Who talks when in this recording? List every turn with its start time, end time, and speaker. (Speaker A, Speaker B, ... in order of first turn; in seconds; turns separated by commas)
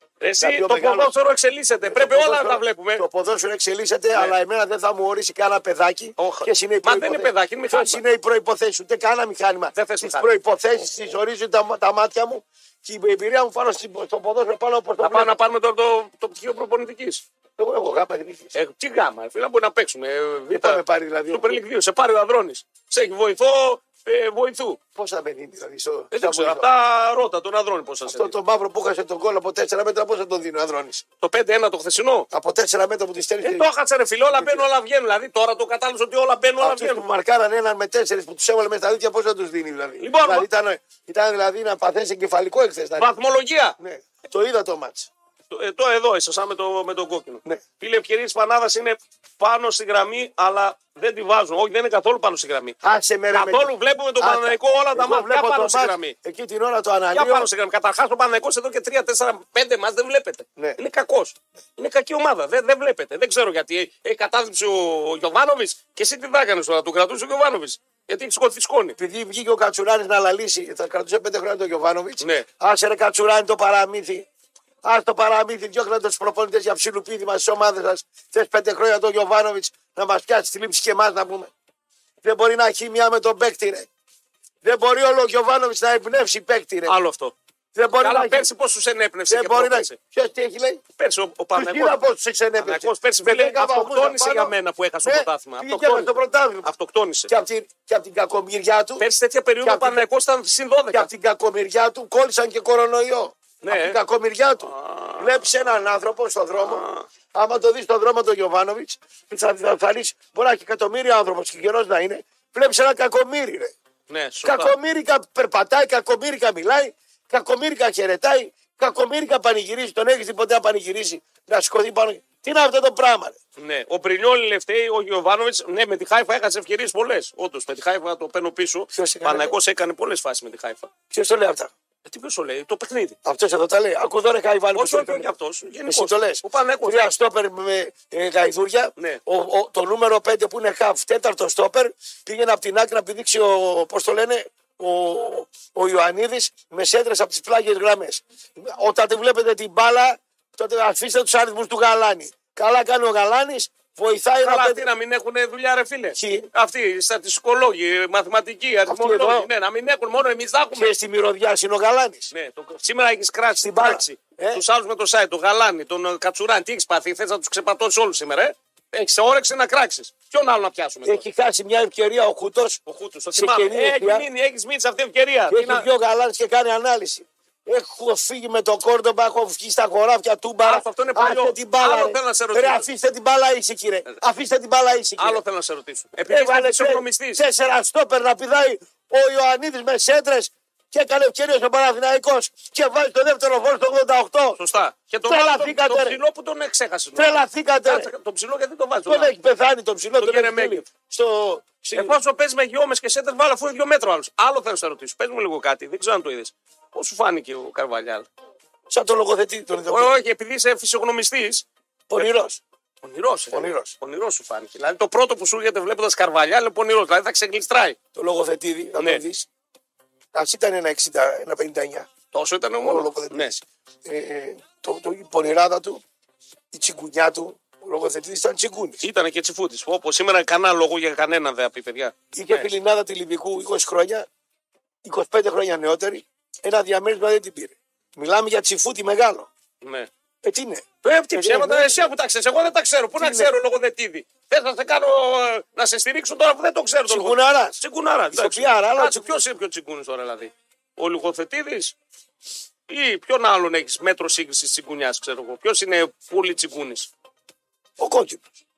Speaker A: 0.2-3.0, Speaker B: 0.4-1.1, Speaker B: 1.8-15.4, Speaker A: 6.2-8.0, Speaker A: 9.7-10.3, Speaker A: 15.0-17.2, Speaker B: 17.6-18.5, Speaker A: 18.5-24.8, Speaker B: 20.5-21.6, Speaker B: 24.9-26.6, Speaker A: 26.1-28.3, Speaker B: 28.0-31.0, Speaker A: 31.2-32.3, Speaker B: 32.3-33.7, Speaker A: 33.4-37.0, Speaker B: 34.3-34.7, Speaker B: 36.6-43.1, Speaker A: 40.0-40.5, Speaker A: 43.0-43.8, Speaker B: 43.8-45.1, Speaker A: 45.5-52.8, Speaker B: 52.8-57.5, Speaker A: 53.3-56.1, Speaker A: 57.1-69.0, Speaker B: 69.0-74.2, Speaker A: 72.2-72.5, Speaker B: 74.8-81.5, Speaker B: 82.2-83.9, Speaker B: 84.6-86.9, Speaker A: 86.8-87.3, Speaker B: 87.7-88.5, Speaker A: 88.0-90.0, Speaker B: 89.3-90.8, Speaker A: 91.0-92.1, Speaker B: 91.5-96.7, Speaker A: 92.6-96.1, Speaker A: 96.6-97.3, Speaker B: 97.3-99.0, Speaker A: 99.0-101.1, Speaker B: 99.6-100.0, Speaker B: 100.9-113.7, Speaker A: 103.6-104.0, Speaker A: 104.6-105.5, Speaker A: 106.6-107.0, Speaker A: 114.1-114.7, Speaker B: 114.4-123.4, Speaker A: 123.6-130.9, Speaker B: 128.9-129.5, Speaker B: 131.1-131.7, Speaker A: 132.1-133.2, Speaker B: 133.2-135.3, Speaker A: 134.7-137.1, Speaker B: 135.9-154.8, Speaker A: 154.4-160.9, Speaker B: 156.1-156.5, Speaker B: 158.8-159.5, Speaker B: 160.7-162.3, Speaker A: 162.3-171.2, Speaker B: 163.6-164.6, Speaker B: 171.0-172.8, Speaker A: 172.9-175.9, Speaker B: 173.3-174.2, Speaker B: 175.5-185.4, Speaker A: 180.6-182.9, Speaker A: 185.2-187.4, Speaker B: 186.3-194.6, Speaker A: 194.6-199.3, Speaker B: 195.3-196.2, Speaker B: 197.2-198.1, Speaker B: 199.1-202.2, Speaker A: 200.2-200.8, Speaker A: 201.9-208.3, Speaker B: 208.9-210.2, Speaker A: 209.9-212.3, Speaker B: 212.1-212.6, Speaker A: 213.0-218.0, Speaker B: 213.5-213.9, Speaker B: 218.1-219.5, Speaker A: 219.0-219.2, Speaker B: 220.3-222.1, Speaker A: 222.3-223.5, Speaker B: 222.8-226.0, Speaker B: 226.7-229.0, Speaker A: 229.0-232.7, Speaker B: 232.3-234.2, Speaker B: 235.0-239.5, Speaker A: 239.8-240.1, Speaker B: 240.4-242.1, Speaker A: 241.0-251.9, Speaker B: 243.2-243.5, Speaker B: 247.1-247.8, Speaker B: 248.3-249.4, Speaker A: 252.9-257.1, Speaker B: 258.0-258.5